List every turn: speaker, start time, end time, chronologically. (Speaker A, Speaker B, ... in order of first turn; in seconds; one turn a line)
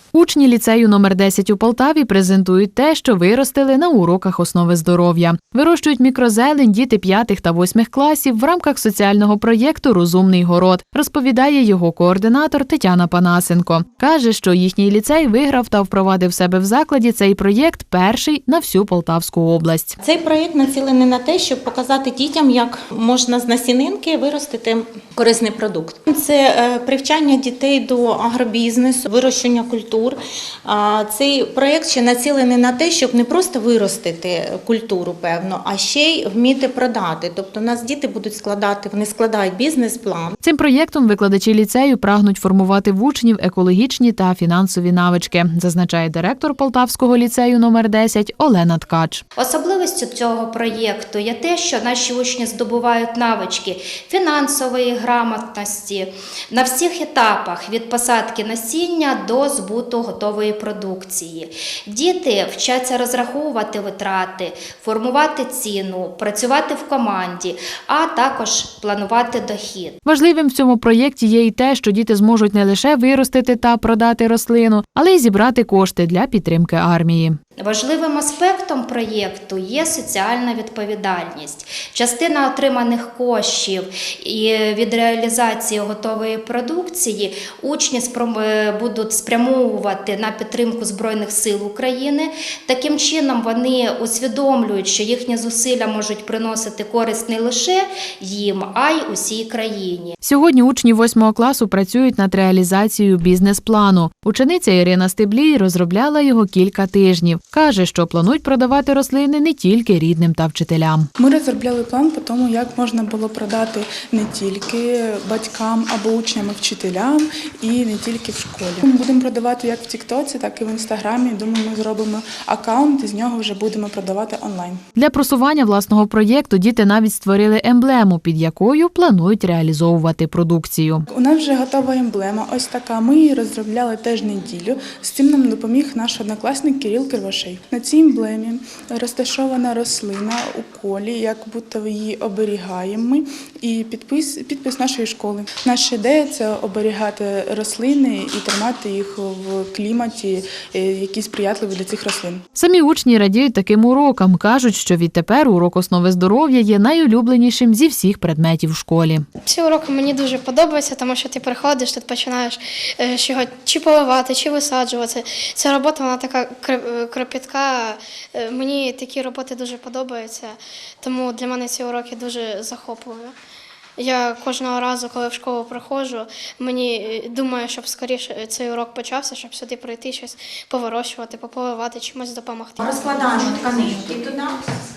Speaker A: 0.1-19.9
Speaker B: 20.0-40.3
Speaker A: 40.4-49.2
Speaker C: 49.4-70.0
Speaker A: 70.0-77.4
Speaker C: 77.6-100.2
Speaker A: 100.2-111.1
Speaker D: 111.2-124.8
Speaker A: 125.0-131.0
Speaker D: 131.1-152.4
Speaker A: 152.6-159.2
Speaker E: 159.4-173.3
Speaker E: 174.0-183.5
Speaker B: 182.8-184.6